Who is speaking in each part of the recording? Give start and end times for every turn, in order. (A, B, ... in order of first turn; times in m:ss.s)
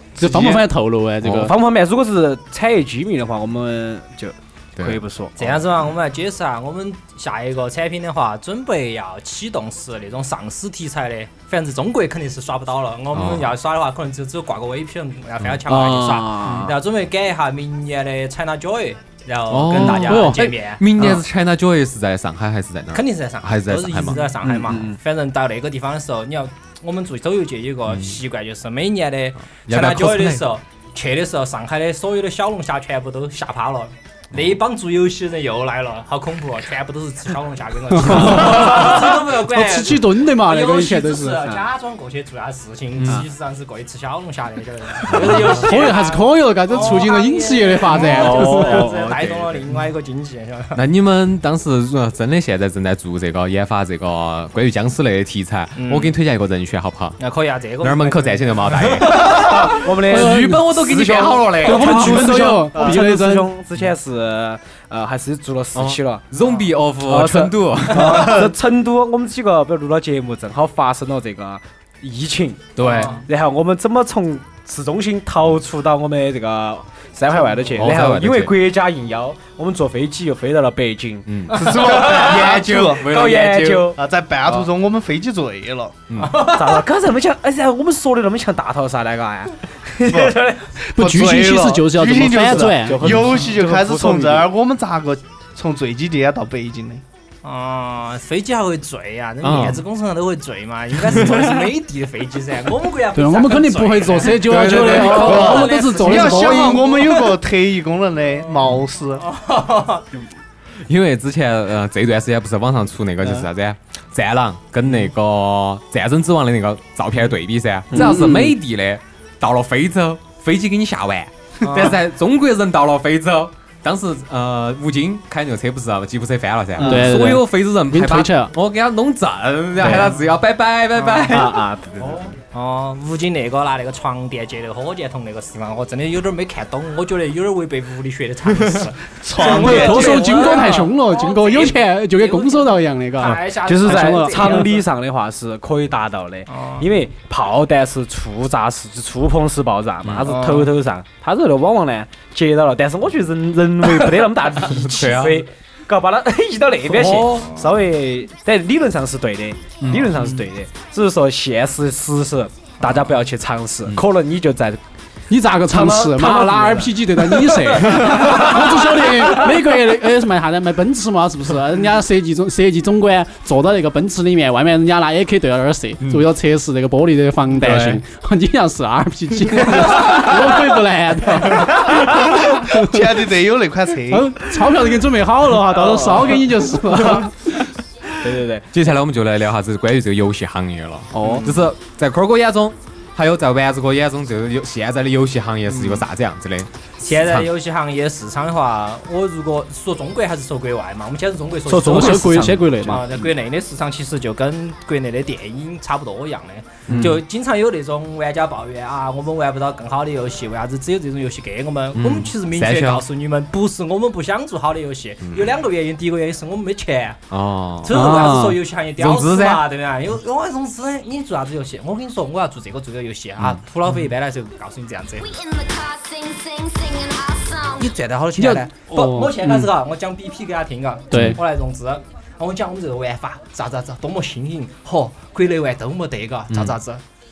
0:00.2-0:01.5 A
0:01.2-0:05.5 B
0:04.8-0:05.0 C
0:05.4-0:21.1 D
0:13.1-0:13.5 C
0:15.6-0:16.8 B
0:19.5-0:24.3 C
0:19.8-0:20.5 A
0:22.9-0:50.8 D
0:24.4-0:25.0 B
0:27.9-0:28.2 C
0:29.6-0:30.4 C
0:37.9-0:41.5 A
0:43.0-0:43.2 C
0:45.1-0:48.9 A
0:47.9-0:49.6 B
0:50.7-0:57.2 C
0:55.8-0:56.1 D
0:57.2-0:59.5 D
0:57.8-1:02.6 C
0:59.0-1:06.3 B
1:00.1-1:00.7 A
1:01.6-1:03.5 A
1:05.7-1:08.4 C
1:07.0-1:24.0 B
1:07.9-1:08.5 E
1:12.8-1:13.2 C
1:12.8-1:13.2 D
1:17.7-1:18.5 C
1:21.2-1:24.0 C
1:21.5-1:23.1 E
1:24.0-1:26.0 E
1:26.1-1:26.4 C
1:26.2-1:26.8 D
1:26.3-1:30.8 B
1:30.0-1:37.0 E
1:30.9-1:33.0 A
1:32.9-1:34.5 B
1:37.4-1:47.4 D
1:39.4-1:39.8 C
1:41.1-1:41.5 C
1:43.1-1:46.8 A
1:44.4-1:45.6 C
1:45.2-1:49.2 E
1:48.4-1:50.1 D
1:50.8-2:11.6 C
1:58.0-1:58.5 A
2:01.6-2:02.0 D
2:06.8-2:08.5 A
2:09.8-2:10.1 B
2:09.9-2:10.2 D
2:10.9-2:11.4 D
2:11.3-2:12.3 B
2:12.4-2:24.9 D
2:19.2-2:20.3 E
2:19.5-2:24.7 A
2:23.6-2:44.8 B
2:26.5-2:26.9 D
2:30.0-2:30.3 C
2:30.2-2:30.7 D
2:34.6-2:35.4 C
2:36.9-2:37.5 C
2:39.8-2:40.3 C
2:42.8-2:43.1 D
2:45.3-3:03.0 A
2:45.7-2:47.0 B
2:47.8-2:48.5 B
2:57.6-2:58.0 C
3:02.3-3:04.4 E
3:04.1-3:07.3 A
3:05.8-3:06.4 B
3:08.2-3:08.7 B
3:08.7-3:17.5 C
3:11.1-3:11.5 A
3:11.2-3:11.6 D
3:17.0-3:37.2 D
3:21.7-3:23.3 B
3:21.8-3:23.0 A
3:26.9-3:27.2 B
3:26.9-3:27.1 C
3:32.0-3:33.0 C
3:35.2-3:35.5 C
3:37.3-3:38.3 C
3:37.8-3:45.3 D
3:37.9-3:38.6 A
3:39.0-3:39.6 C
3:45.2-3:47.9 F
3:47.8-3:57.0 D
3:48.4-3:49.6 A
3:51.1-3:51.4 C
3:56.5-3:56.8 C